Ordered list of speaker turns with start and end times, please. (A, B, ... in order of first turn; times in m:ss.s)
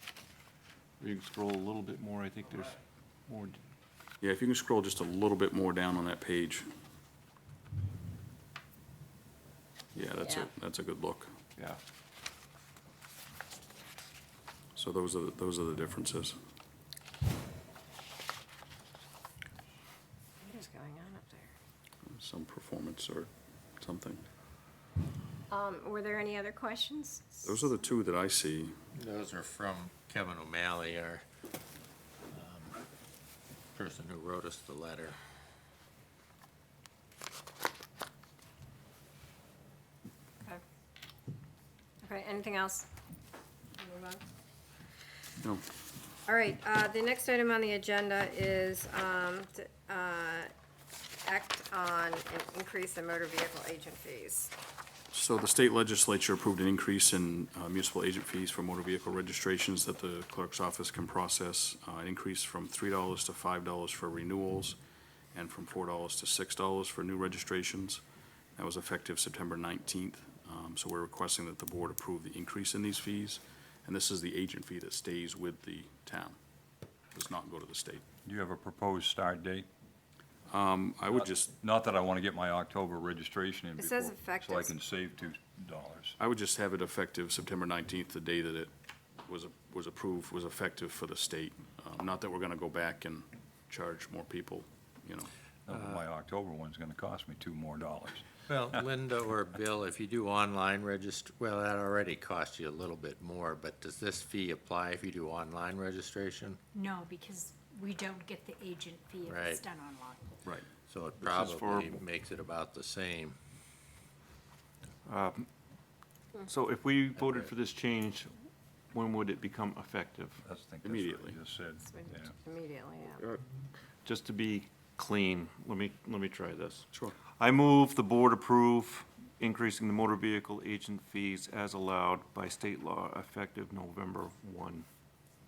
0:01.0-0:03.6 A
0:04.2-0:06.7 B
0:09.9-0:11.3 B
0:10.2-0:10.5 C
0:14.8-0:16.4 B
0:20.4-0:21.5 C
0:22.0-0:24.2 B
0:25.5-0:27.6 C
0:27.4-0:28.8 B
0:28.9-0:31.2 D
0:32.3-0:32.8 D
0:33.7-0:35.2 D
0:42.0-0:42.9 C
0:43.8-0:44.2 C
0:46.2-0:50.5 C
0:51.2-0:54.5 C
0:55.1-1:04.8 B
1:05.3-1:08.0 B
1:08.6-1:16.4 B
1:17.1-1:18.0 B
1:18.2-1:19.7 E
1:20.5-1:21.5 B
1:21.1-1:26.2 E
1:23.8-1:24.8 C
1:26.2-1:28.7 B
1:29.2-1:35.3 B
1:35.6-1:38.3 E
1:38.5-1:46.6 D
1:46.7-1:50.3 F
1:49.2-1:49.6 D
1:50.8-1:53.4 D
1:51.2-1:52.0 A
1:55.0-1:55.5 A
1:56.4-1:58.4 A
1:58.9-2:00.4 A
2:00.4-2:02.3 E
2:00.8-2:01.4 B
2:01.8-2:03.2 C
2:04.0-2:14.8 A